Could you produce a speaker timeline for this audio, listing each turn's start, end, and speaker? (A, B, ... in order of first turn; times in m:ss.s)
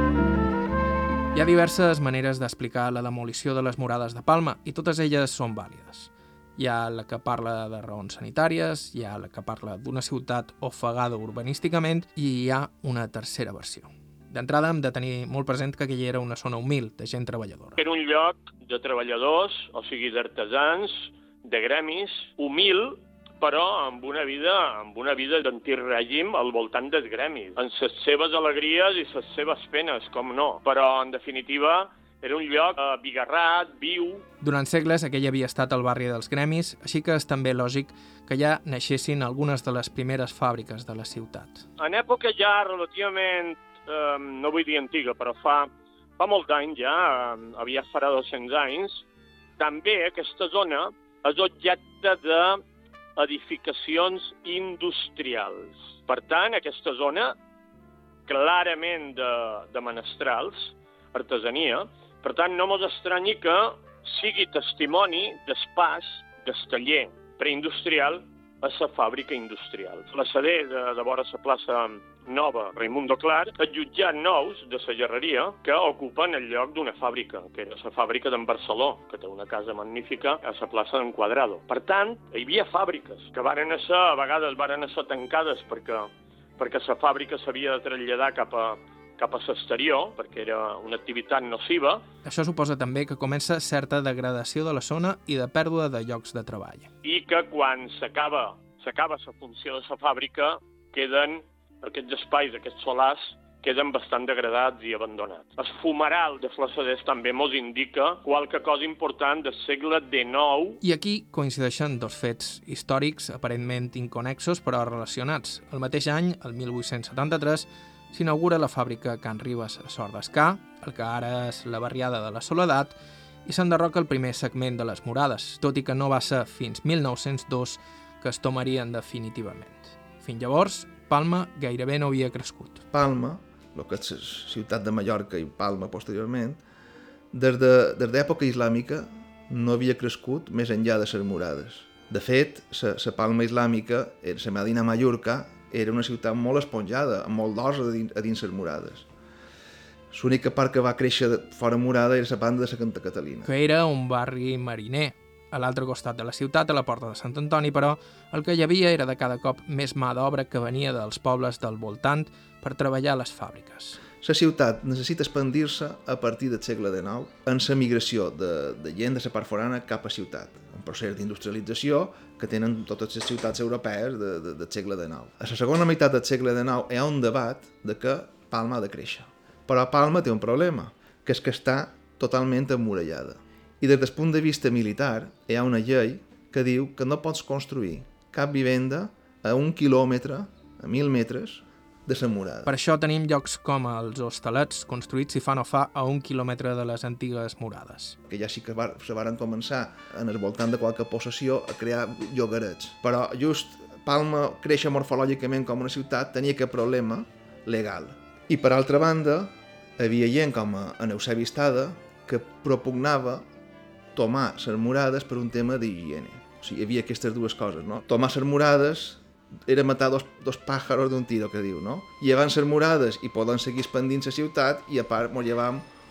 0:01.3-0:17.8 A
0:17.8-0:34.2 B
0:34.4-0:41.6 A
0:41.8-0:49.0 B
0:49.6-0:52.6 B
0:53.2-0:57.4 B
0:58.3-1:32.0 B
1:32.2-1:36.9 A
1:37.0-1:50.8 B
1:50.8-2:02.9 A
2:03.4-2:12.8 A
2:12.9-2:16.6 C
2:17.3-2:29.1 C
2:30.1-2:33.5 C
2:33.4-2:44.0 A
2:44.2-3:12.7 C
3:12.7-3:18.2 A
3:18.3-3:33.5 C
3:34.1-3:45.9 C